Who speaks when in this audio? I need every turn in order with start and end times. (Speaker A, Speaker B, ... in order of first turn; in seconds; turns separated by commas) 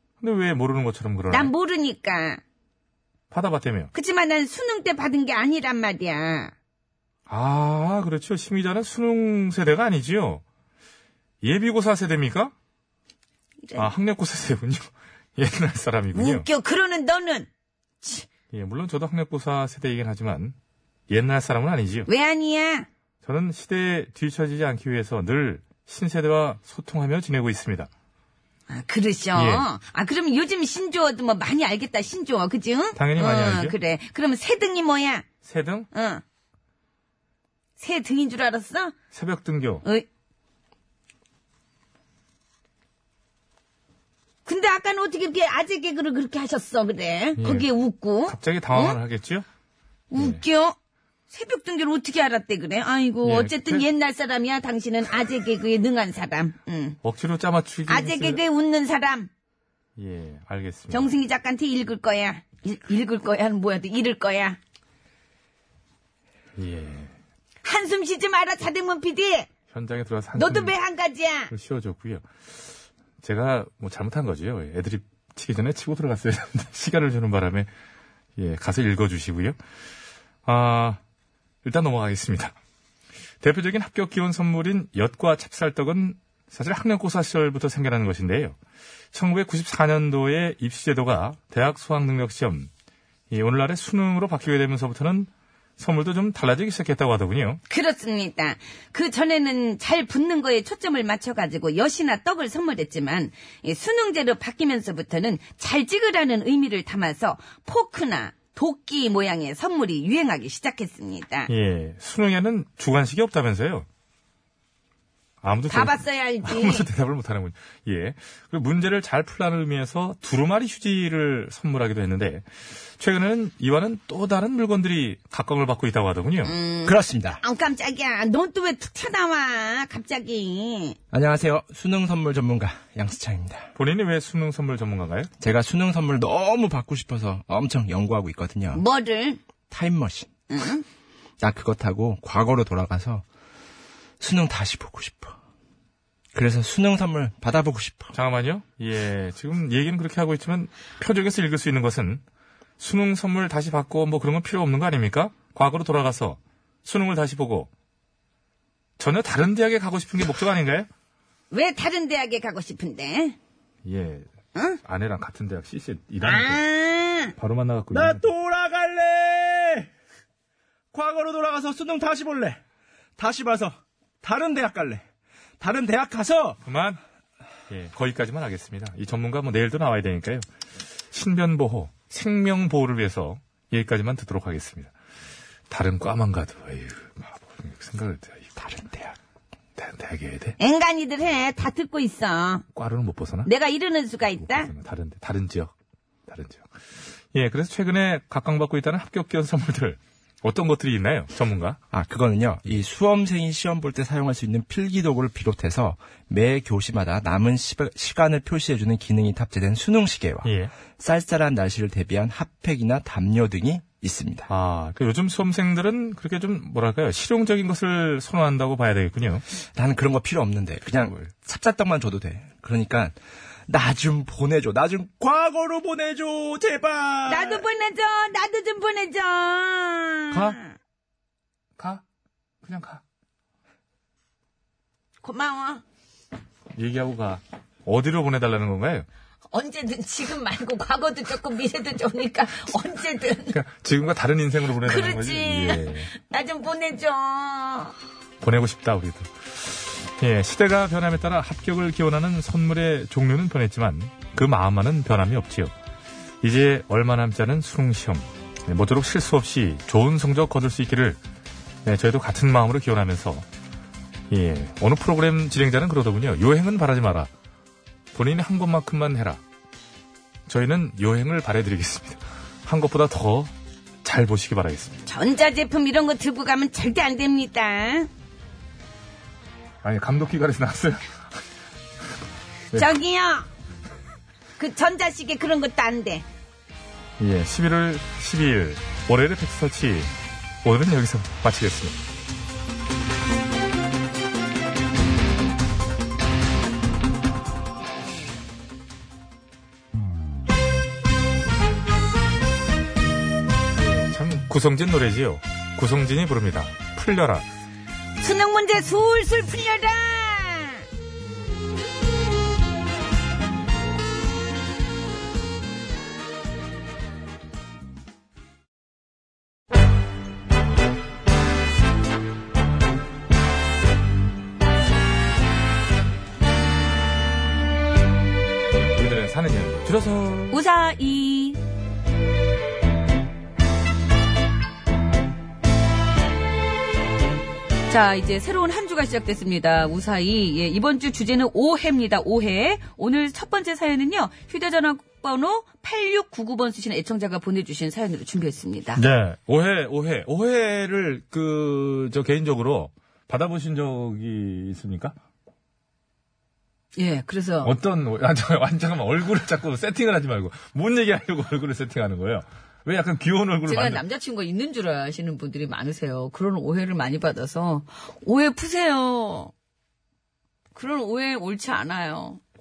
Speaker A: 0.2-1.5, Speaker B: 1.3-2.4, Speaker A: 3.3-3.9, Speaker B: 3.9-6.5, Speaker A: 7.3-10.4, Speaker A: 11.4-12.5, Speaker A: 13.8-16.5, Speaker B: 16.1-17.5, Speaker A: 18.5-20.6, Speaker A: 21.1-22.1, Speaker B: 22.1-22.9, Speaker A: 23.2-27.9, Speaker B: 28.7-35.2, Speaker A: 29.4-29.7, Speaker A: 33.0-33.8, Speaker A: 35.4-35.9, Speaker B: 35.9-36.2, Speaker B: 37.8-38.9, Speaker A: 39.1-39.9, Speaker B: 44.5-49.0, Speaker A: 47.4-47.7, Speaker A: 48.3-49.5, Speaker B: 50.1-50.8, Speaker A: 50.1-50.4, Speaker B: 51.3-57.0, Speaker A: 53.2-53.9, Speaker A: 57.0-58.4, Speaker B: 57.9-59.3, Speaker A: 60.0-61.2, Speaker B: 60.9-64.6, Speaker A: 66.6-67.1, Speaker B: 67.6-69.5, Speaker A: 69.7-70.8, Speaker B: 70.3-71.5, Speaker A: 71.5-72.2, Speaker A: 73.2-77.7, Speaker A: 78.4-79.6, Speaker A: 80.5-81.0, Speaker A: 81.6-82.5, Speaker A: 83.4-88.6, Speaker A: 89.1-92.7, Speaker A: 93.3-97.6, Speaker B: 97.7-111.5, Speaker A: 111.5-113.9, Speaker A: 115.4-122.5, Speaker B: 115.7-116.9, Speaker A: 123.0-126.6, Speaker B: 126.5-130.9, Speaker C: 126.8-127.4, Speaker C: 131.1-133.7, Speaker A: 133.8-135.3, Speaker C: 135.4-138.8, Speaker B: 138.7-139.4, Speaker C: 139.7-140.3, Speaker B: 140.5-140.8, Speaker C: 141.4-143.2, Speaker C: 144.2-145.3, Speaker C: 146.3-148.1, Speaker A: 148.1-152.2, Speaker A: 152.8-157.7, Speaker A: 159.0-160.9, Speaker B: 161.5-163.4, Speaker A: 163.8-164.3, Speaker A: 164.8-166.6, Speaker B: 166.2-167.3, Speaker A: 167.4-168.2, Speaker C: 167.9-169.9, Speaker C: 170.9-172.6, Speaker C: 173.2-175.0, Speaker C: 175.6-176.6, Speaker A: 176.6-177.0, Speaker A: 177.7-180.4, Speaker A: 181.1-184.9, Speaker A: 185.7-189.1, Speaker A: 189.8-190.6, Speaker B: 190.6-192.6, Speaker A: 192.7-193.5, Speaker B: 193.4-194.7, Speaker A: 194.4-195.7, Speaker A: 196.3-196.6, Speaker A: 197.3-201.8, Speaker C: 201.9-214.5, Speaker A: 210.4-210.7, Speaker A: 214.5-219.4, Speaker C: 219.8-227.6, Speaker B: 227.3-230.7, Speaker A: 230.3-230.6, Speaker A: 231.8-232.0, Speaker A: 232.6-233.0, Speaker B: 235.2-235.8, Speaker A: 236.8-239.1, Speaker B: 239.5-243.6, Speaker A: 243.5-246.1, Speaker B: 244.8-247.9, Speaker A: 248.4-255.7, Speaker A: 256.4-261.2, Speaker A: 261.9-263.5, Speaker A: 264.3-267.3, Speaker A: 268.1-269.4, Speaker A: 270.5-273.5, Speaker A: 274.0-275.0, Speaker B: 275.1-278.1, Speaker A: 279.8-281.1, Speaker B: 282.8-283.5, Speaker B: 284.6-286.2, Speaker A: 287.2-290.1, Speaker A: 290.6-292.0, Speaker A: 303.8-307.4, Speaker B: 308.2-310.8, Speaker A: 328.9-330.6, Speaker B: 330.5-331.6, Speaker B: 337.9-349.0, Speaker A: 348.9-355.2, Speaker B: 356.9-357.7, Speaker A: 357.6-364.0, Speaker B: 363.7-369.5, Speaker B: 370.8-372.4